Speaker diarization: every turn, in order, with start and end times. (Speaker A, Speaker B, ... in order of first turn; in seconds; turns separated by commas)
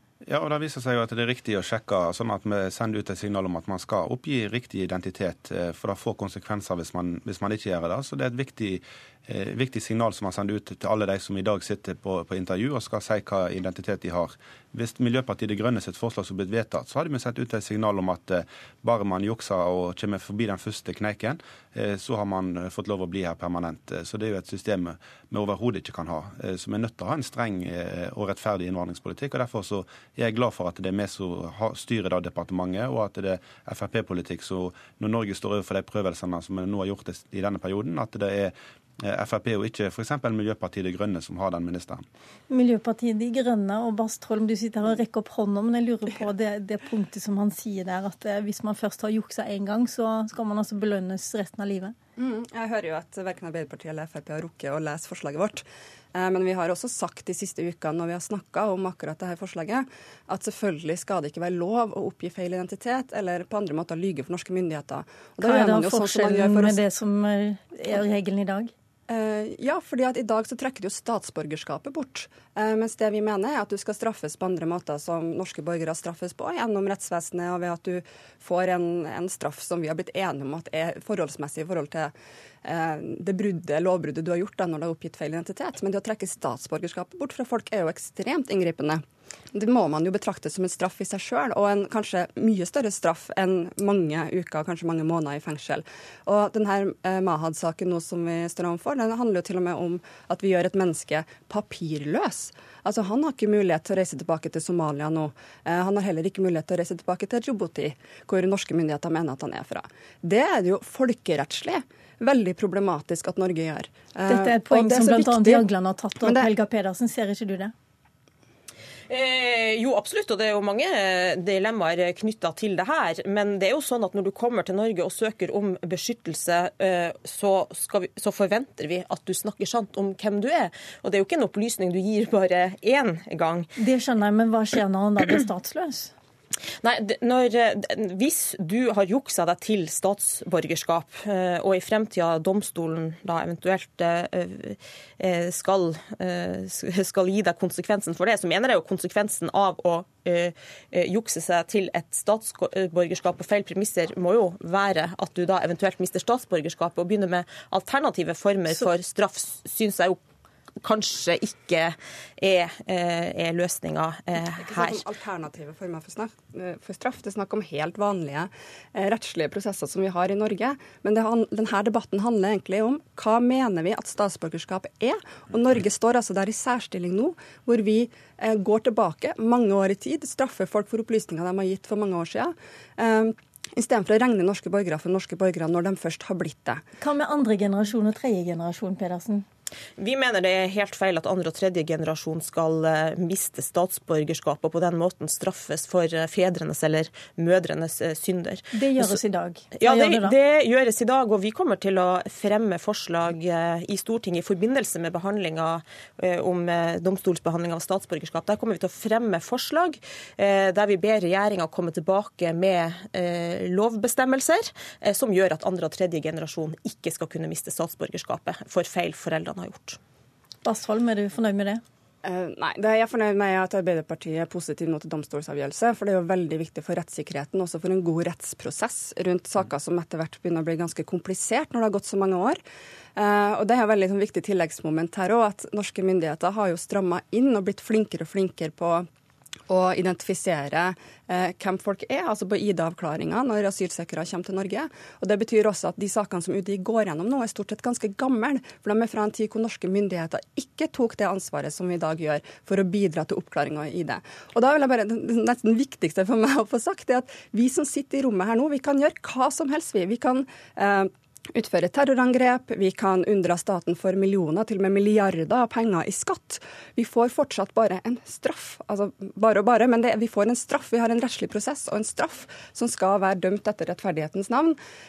Speaker A: 0.2-42.0, Speaker B: 42.5-51.9, Speaker C: 52.2-66.8, Speaker B: 65.4-68.7, Speaker C: 69.1-82.1, Speaker C: 82.6-115.7, Speaker B: 114.3-117.7, Speaker C: 116.2-116.5, Speaker D: 119.1-133.7, Speaker B: 133.8-136.1, Speaker D: 136.8-160.2, Speaker D: 160.8-165.0, Speaker C: 164.4-186.8, Speaker B: 187.0-189.4, Speaker D: 190.0-199.2, Speaker B: 198.7-200.3, Speaker D: 199.7-220.0, Speaker B: 220.6-221.8, Speaker C: 222.2-232.6, Speaker C: 233.2-239.1, Speaker C: 239.7-274.8